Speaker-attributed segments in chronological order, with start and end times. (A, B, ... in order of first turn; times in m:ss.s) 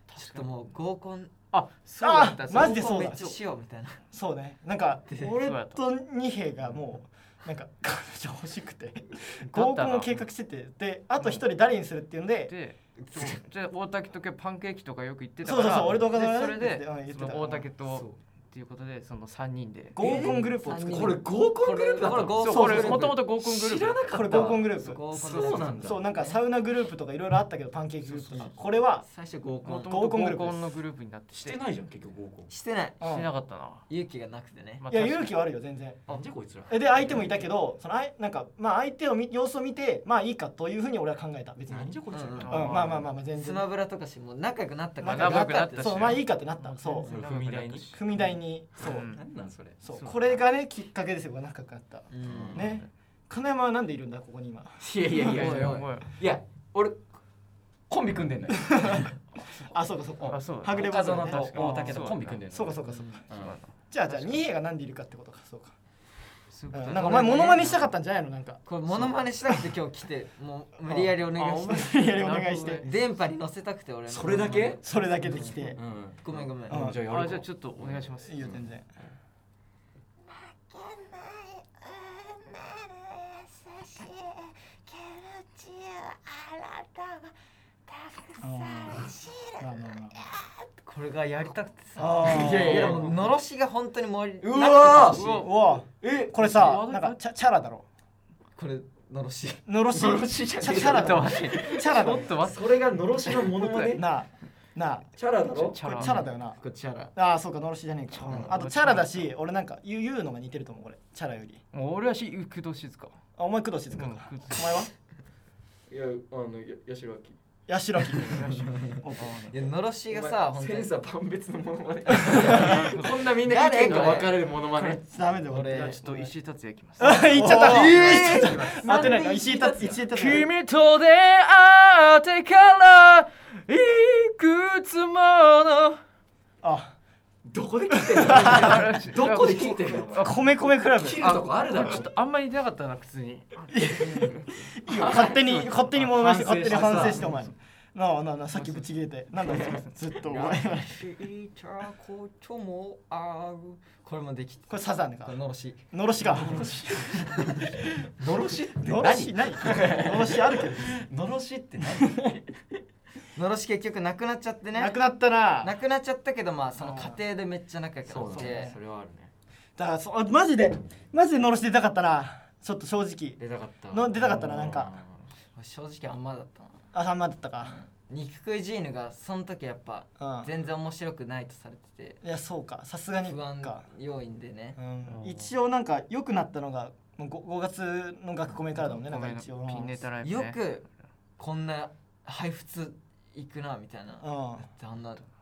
0:00.1-0:00.5 A
0:00.2-0:01.4 B
0:01.5-0:02.8 A
0:02.0-0:03.4 C
0:02.2-0:04.0 B
0:04.1-0:12.5 C
0:05.1-0:05.3 B
0:05.4-0:05.8 A
0:09.5-0:10.2 A
0:12.5-0:20.0 A
0:15.4-0:17.7 C
0:19.9-0:21.2 C
0:20.0-0:26.0 D
0:20.0-0:23.2 B
0:22.4-0:24.1 A
0:22.5-0:23.1 C
0:24.1-0:29.0 C
0:24.8-0:26.4 B
0:28.3-0:29.9 B
0:29.6-0:31.6 A
0:29.8-0:30.6 C
0:31.3-0:32.5 D
0:32.5-0:33.0 B
0:33.0-0:33.3 C
0:33.0-0:33.8 A
0:33.9-0:34.8 B
0:34.8-0:35.4 A
0:34.9-0:36.0 C
0:36.1-0:37.2 D
0:36.7-0:43.7 C
0:41.7-0:43.1 D
0:42.1-0:42.6 B
0:42.4-0:43.0 A
0:43.3-0:46.2 B
0:45.0-0:47.1 C
0:45.0-0:48.0 A
0:47.0-0:47.9 D
0:47.9-0:49.1 C
0:48.8-0:49.2 A
0:48.9-0:49.9 D
0:49.8-0:55.6 C
0:49.9-0:50.2 A
0:52.1-0:52.6 B
0:52.2-0:52.8 D
0:52.6-0:52.8 A
0:54.8-0:57.0 D
0:55.2-0:56.1 A
0:57.9-0:59.2 D
0:59.6-1:03.2 C
1:00.2-1:03.6 D
1:00.2-1:02.4 A
1:02.9-1:03.2 B
1:03.3-1:04.4 A
1:03.9-1:05.7 C
1:06.5-1:07.9 A
1:06.7-1:08.6 C
1:06.9-1:07.8 B
1:08.6-1:11.9 B
1:08.9-1:09.2 D
1:10.8-1:12.9 C
1:11.3-1:12.9 A
1:12.8-1:16.9 B
1:14.1-1:14.8 D
1:14.8-1:15.8 C
1:15.8-1:18.6 D
1:16.7-1:17.0 C
1:17.0-1:19.1 A
1:18.2-1:18.8 C
1:20.3-1:27.3 B
1:27.9-1:35.5 B
1:28.4-1:30.2 C
1:32.0-1:33.1 C
1:32.2-1:33.4 D
1:34.4-1:35.3 D
1:35.1-1:35.7 A
1:35.2-1:37.8 C
1:36.0-1:36.4 D
1:36.4-1:37.2 A
1:38.6-1:39.7 B
1:39.6-1:42.4 C
1:39.9-1:44.0 D
1:40.9-1:44.0 A
1:43.8-1:45.1 C
1:45.2-1:46.2 D
1:45.6-1:46.3 A
1:45.8-1:46.6 C
1:46.1-1:47.1 B
1:47.1-1:51.6 C
1:48.1-1:49.3 A
1:48.3-1:48.6 B
1:51.7-1:53.2 A
1:53.4-1:54.9 C
1:53.9-1:54.8 A
1:55.9-1:57.4 D
1:57.7-1:59.5 C
1:58.2-1:59.5 A
1:59.5-2:00.9 B
2:00.1-2:05.0 D
2:02.4-2:03.2 A
2:03.4-2:04.4 B
2:04.7-2:05.0 A
2:05.0-2:06.3 C
2:05.5-2:06.0 B
2:05.6-2:09.2 A
2:07.0-2:10.5 C
2:07.3-2:08.6 B
2:07.4-2:10.0 D
2:10.1-2:16.0 A
2:16.6-2:16.9 C
2:17.4-2:22.1 D
2:17.9-2:18.7 C
2:18.2-2:20.6 A
2:20.2-2:21.3 C
2:21.2-2:26.1 A
2:23.7-2:31.0 C
2:24.9-2:25.3 D
2:26.0-2:27.3 D
2:26.8-2:27.5 A
2:28.5-2:28.9 A
2:30.3-2:35.8 B
2:34.7-2:35.3 C
2:35.9-2:36.6 C
2:36.2-2:37.6 D
2:38.2-2:42.5 D
2:38.8-2:41.0 C
2:43.3-2:45.0 B
2:44.7-2:45.7 C
2:45.6-2:48.7 B
2:46.8-2:47.2 C
2:48.0-2:49.3 D
2:48.3-2:48.8 C
2:49.8-2:53.4 C
2:53.4-2:55.1 D
2:53.9-2:54.9 C
2:55.5-2:56.8 B
2:56.9-2:57.8 C
2:58.1-3:02.2 B
3:00.2-3:00.5 C
3:02.2-3:03.8 C
3:03.2-3:04.8 B
3:04.8-3:10.0 C
3:05.1-3:05.5 A
3:08.8-3:10.6 A
3:10.2-3:10.8 B
3:11.4-3:15.2 B
3:14.2-3:14.7 C